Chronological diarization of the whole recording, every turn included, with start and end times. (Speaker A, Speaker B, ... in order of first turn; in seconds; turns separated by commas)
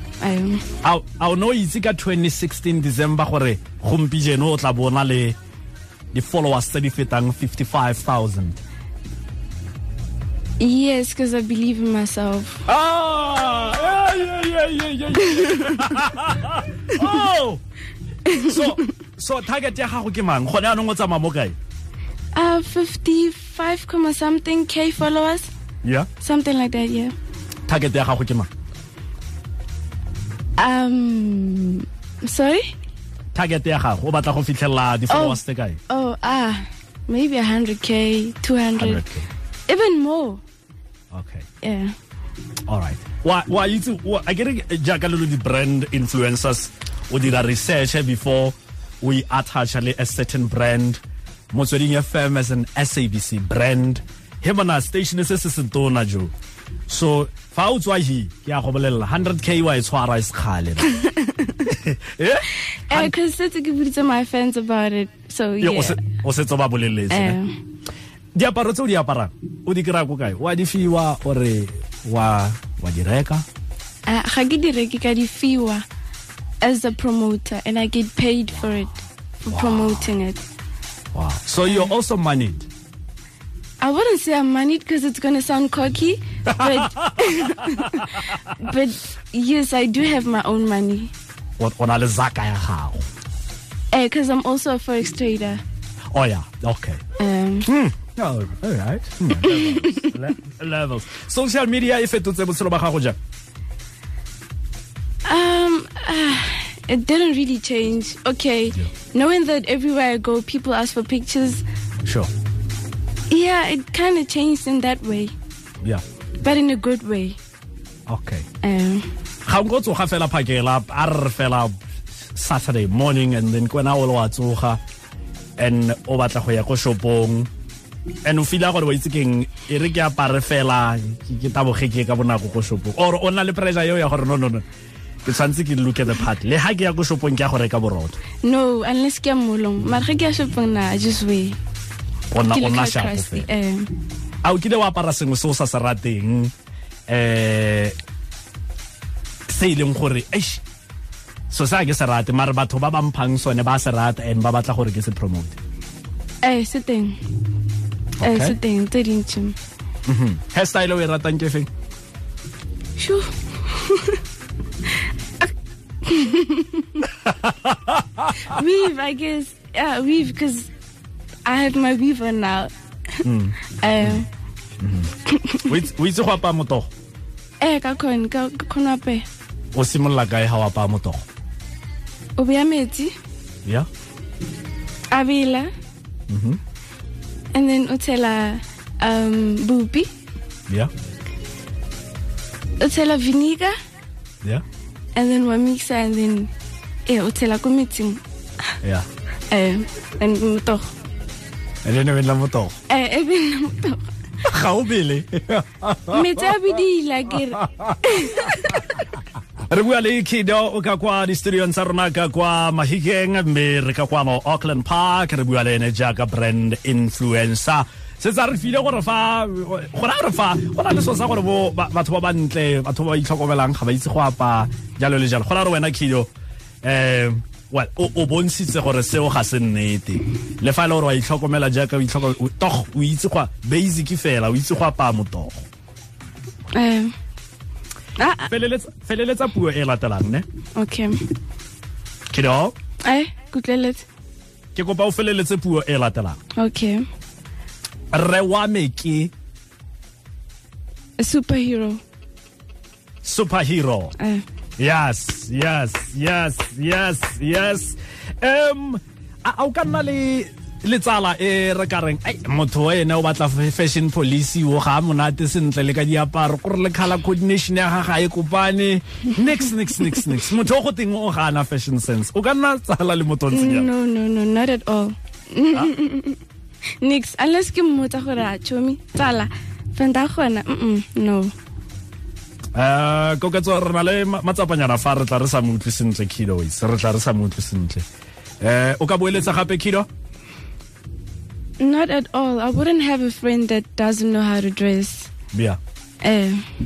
Speaker A: 0.2-0.6, Speaker B: 0.8-5.4, Speaker B: 6.1-8.6, Speaker A: 10.6-12.6, Speaker B: 12.7-17.6, Speaker A: 15.2-15.9, Speaker A: 18.3-18.7, Speaker B: 18.3-21.6, Speaker A: 22.4-25.5, Speaker A: 26.2-27.1, Speaker B: 27.7-28.5, Speaker A: 30.6-32.7, Speaker B: 33.3-35.8, Speaker A: 35.1-39.0, Speaker B: 38.8-39.3, Speaker A: 39.7-40.4, Speaker B: 41.1-41.5, Speaker A: 41.6-42.0, Speaker B: 42.7-51.0, Speaker B: 51.5-56.3, Speaker B: 56.9-60.9, Speaker A: 60.9-61.6, Speaker B: 61.6-63.1, Speaker A: 62.9-66.0, Speaker B: 65.6-67.4, Speaker A: 67.1-67.6, Speaker B: 68.3-73.5, Speaker A: 74.1-75.8, Speaker A: 76.6-80.4, Speaker B: 79.5-80.1, Speaker B: 81.1-82.7, Speaker A: 83.8-91.1, Speaker B: 86.5-88.1, Speaker B: 91.6-93.0, Speaker A: 93.9-95.6, Speaker B: 96.1-97.0, Speaker A: 97.2-97.7, Speaker B: 97.7-103.2, Speaker A: 99.4-100.2, Speaker A: 105.2-111.7, Speaker B: 112.0-112.3, Speaker A: 113.3-115.3, Speaker A: 116.4-117.4, Speaker B: 118.1-118.5, Speaker A: 118.6-119.1, Speaker B: 119.5-121.8, Speaker B: 122.3-124.8, Speaker B: 125.6-127.5, Speaker B: 128.2-134.7, Speaker B: 135.2-138.2, Speaker A: 138.4-141.6, Speaker B: 142.3-143.5, Speaker A: 142.4-143.9, Speaker B: 144.4-146.5, Speaker B: 147.1-148.0, Speaker B: 149.5-150.6, Speaker B: 151.5-155.6, Speaker A: 156.4-157.2, Speaker B: 158.2-158.6, Speaker A: 158.2-159.6, Speaker B: 160.1-161.7, Speaker A: 163.0-164.2, Speaker A: 164.9-165.5, Speaker A: 166.0-167.1, Speaker B: 167.1-168.3, Speaker A: 168.4-170.7, Speaker A: 171.5-172.7, Speaker B: 173.2-174.2, Speaker A: 173.7-174.3, Speaker B: 174.8-176.9, Speaker A: 175.3-175.7, Speaker A: 177.6-179.2, Speaker B: 179.7-181.2, Speaker A: 182.4-183.1, Speaker A: 185.1-185.7, Speaker B: 186.3-186.6, Speaker A: 187.5-190.1, Speaker A: 192.8-193.8, Speaker A: 195.2-196.5, Speaker A: 197.1-198.2, Speaker A: 199.5-200.9, Speaker B: 201.8-202.8, Speaker A: 202.9-204.1, Speaker B: 204.4-206.6, Speaker A: 206.1-209.0, Speaker B: 207.3-209.0, Speaker B: 209.7-226.3, Speaker B: 226.8-235.7, Speaker A: 236.7-237.1, Speaker A: 238.2-238.5, Speaker B: 238.5-240.5, Speaker A: 240.8-241.2, Speaker B: 242.3-242.7, Speaker A: 243.1-244.1, Speaker B: 244.8-246.4, Speaker A: 246.6-247.1, Speaker B: 248.1-249.3, Speaker A: 251.2-252.0, Speaker B: 253.2-254.2, Speaker A: 254.2-254.4, Speaker B: 254.8-273.9, Speaker A: 273.5-276.4, Speaker A: 277.0-281.5, Speaker B: 282.8-288.0, Speaker B: 288.6-290.1, Speaker A: 291.8-295.3, Speaker B: 295.5-295.8, Speaker A: 296.2-296.6